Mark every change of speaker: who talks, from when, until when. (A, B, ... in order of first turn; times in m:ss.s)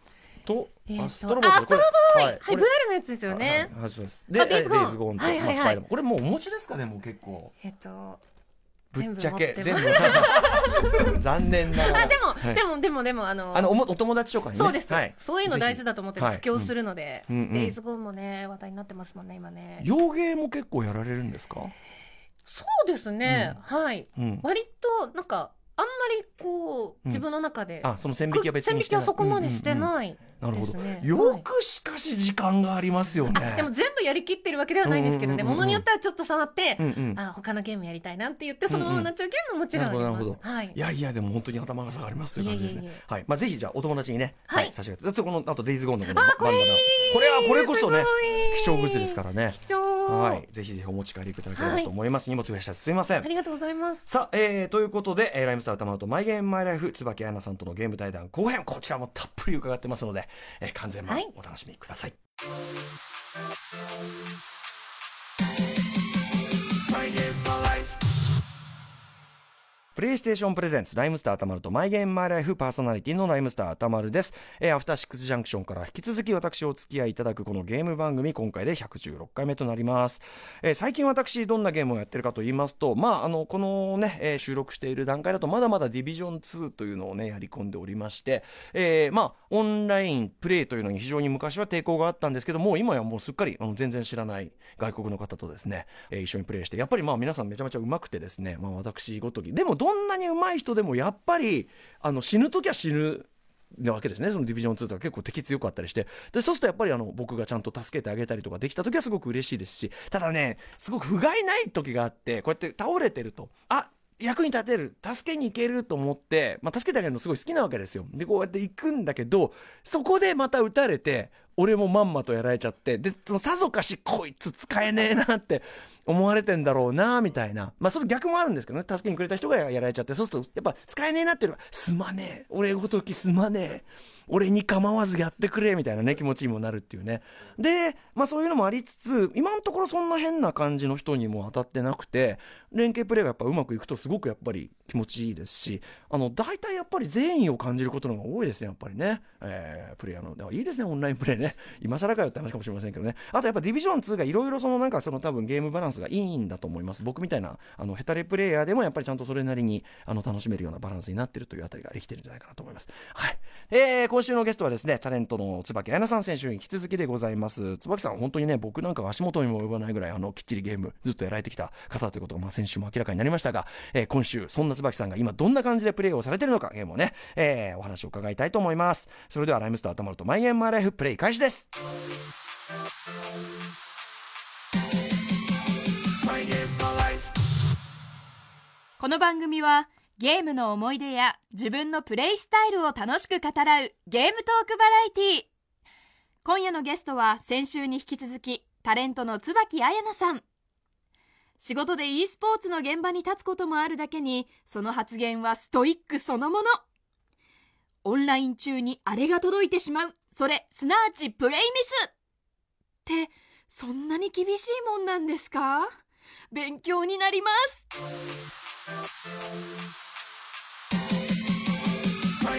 0:00.4-0:02.7 A
0:00.9-0:03.7 B
0:03.3-0:07.5 A
0:04.4-0:05.8 B
0:07.6-0:08.2 B
0:08.9-0:12.6 A
0:09.0-0:11.2 B
0:11.7-0:13.8 B
0:13.5-0:16.7 A
0:14.5-0:19.9 B
0:17.3-0:17.8 A
0:19.8-0:21.7 A
0:22.4-0:31.4 B
0:23.3-0:23.6 A
0:24.2-0:24.5 A
0:27.8-0:33.7 A
0:33.3-0:40.8 B
0:34.8-0:35.8 A
0:36.8-0:37.2 A
0:38.7-0:39.1 A
0:39.7-0:53.3 A
0:42.4-0:43.0 B
0:44.5-0:44.7 B
0:46.0-0:50.4 B
0:51.6-0:51.9 B
0:53.2-0:54.0 B
0:54.1-1:02.2 A
1:10.0-3:01.7 A
3:09.0-3:15.5 C
3:16.4-3:20.4 C
3:21.6-3:26.8 C
3:28.0-3:32.1 C
3:33.0-3:35.9 C
3:36.5-3:37.9 C